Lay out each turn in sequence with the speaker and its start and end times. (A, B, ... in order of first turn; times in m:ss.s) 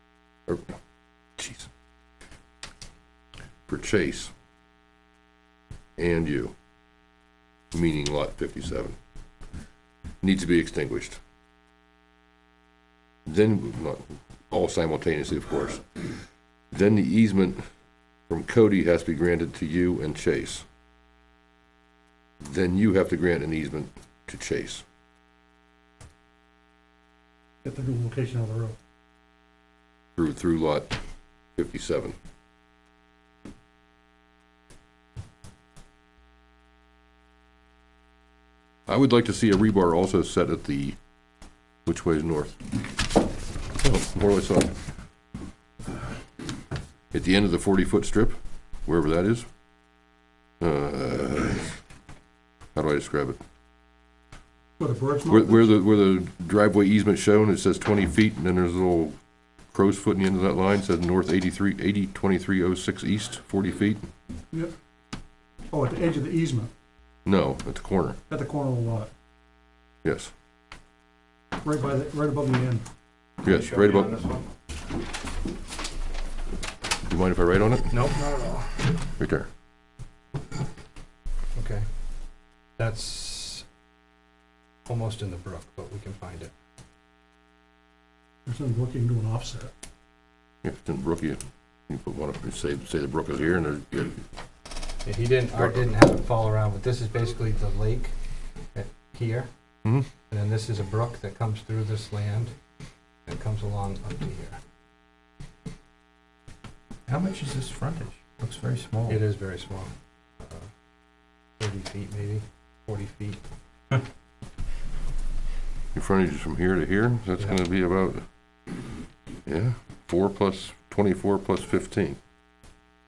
0:00.5-0:00.8 A
0:01.4-0:01.7 A
0:03.7-0:04.3 A
0:06.0-0:06.6 A
0:07.7-0:09.0 A
0:10.2-0:11.2 A
0:13.3-0:15.9 A
0:16.7-0:17.6 A
0:18.3-0:20.7 A
0:22.4-0:24.8 A
0:27.6-0:28.8 B
0:30.2-0:31.0 A
0:31.6-0:32.2 A
0:38.9-0:41.0 A
0:41.9-0:42.6 A
0:43.8-0:44.8 A
0:47.1-0:49.5 A
0:50.6-0:51.8 A
0:52.8-0:53.4 A
0:54.8-0:55.7 B
0:55.3-0:59.2 A
0:59.7-1:04.1 A
1:05.7-1:06.7 B
1:07.2-1:08.2 A
1:08.3-1:09.1 B
1:10.0-1:10.3 A
1:11.6-1:12.8 B
1:13.4-1:14.2 A
1:13.4-1:14.5 C
1:17.1-1:18.0 A
1:17.9-1:19.0 C
1:19.2-1:19.5 A
1:21.6-1:21.8 C
1:22.8-1:23.6 C
1:24.9-1:26.5 C
1:28.5-1:29.7 B
1:30.6-1:34.2 A
1:35.0-1:38.1 C
1:35.6-1:35.9 A
1:38.8-1:39.5 C
1:40.3-1:42.5 C
1:43.3-1:44.6 C
1:47.1-1:49.2 D
1:49.1-1:50.7 C
1:51.6-1:53.4 C
1:55.9-1:58.3 A
1:59.5-2:02.2 A